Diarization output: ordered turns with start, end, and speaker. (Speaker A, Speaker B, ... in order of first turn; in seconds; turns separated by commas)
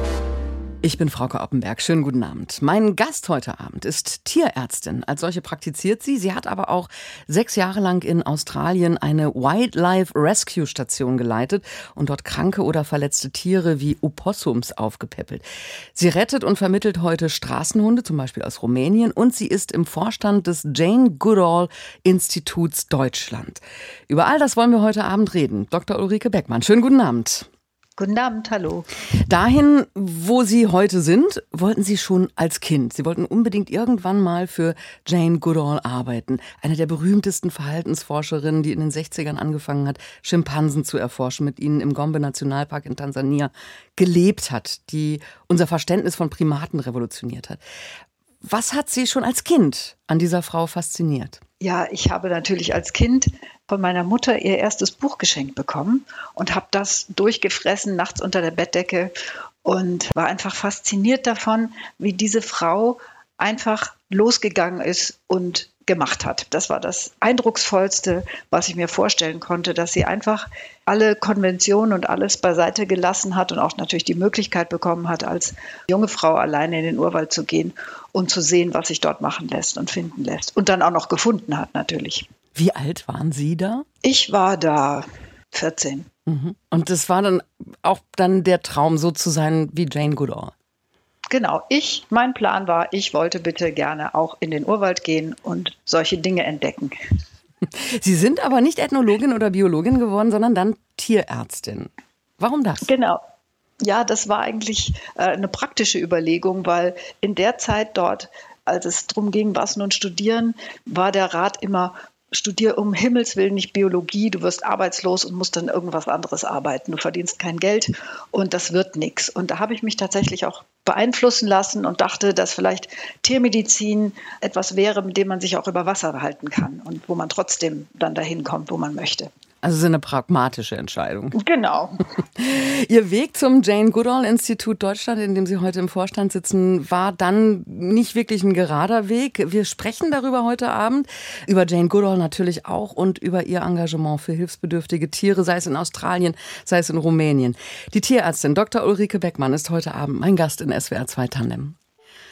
Speaker A: 0.8-27.5, Speaker B: 28.0-28.9, Speaker A: 29.3-47.6, Speaker A: 48.4-51.4, Speaker B: 51.6-59.1, Speaker B: 59.6-82.3, Speaker A: 82.5-83.8, Speaker B: 84.0-86.1, Speaker A: 86.2-90.5, Speaker B: 91.3-97.0, Speaker A: 97.7-102.9, Speaker B: 102.8-103.2, Speaker B: 103.8-129.3, Speaker A: 129.6-131.3, Speaker B: 131.3-132.0, Speaker A: 132.4-151.8